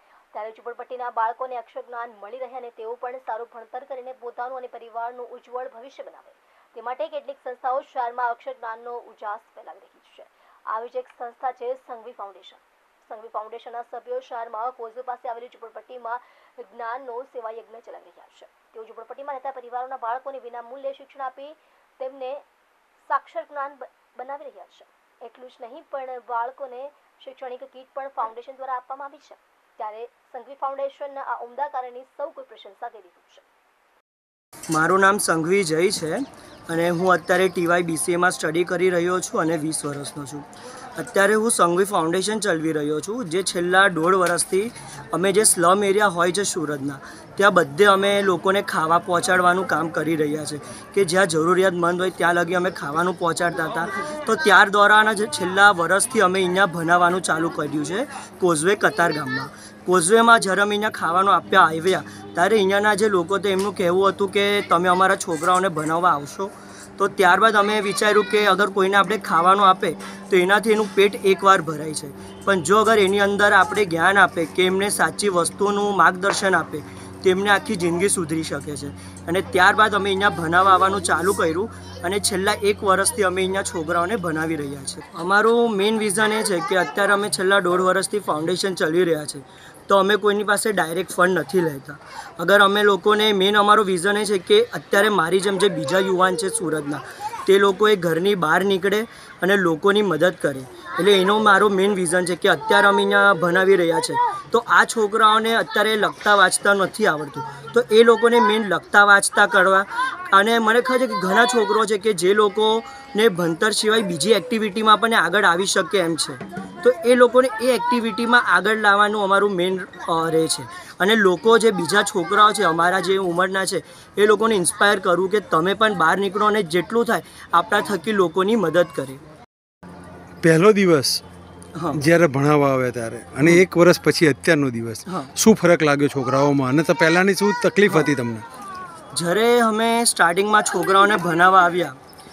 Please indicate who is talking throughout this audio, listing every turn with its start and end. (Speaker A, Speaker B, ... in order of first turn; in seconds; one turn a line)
Speaker A: 0.3-22.4
Speaker A: 23.1-33.4
Speaker B: 34.7-40.4
Speaker B: 41.0-129.2
Speaker C: 130.4-131.2
Speaker B: 131.7-132.0
Speaker C: 131.9-138.4
Speaker B: 135.1-135.3
Speaker B: 139.1-142.0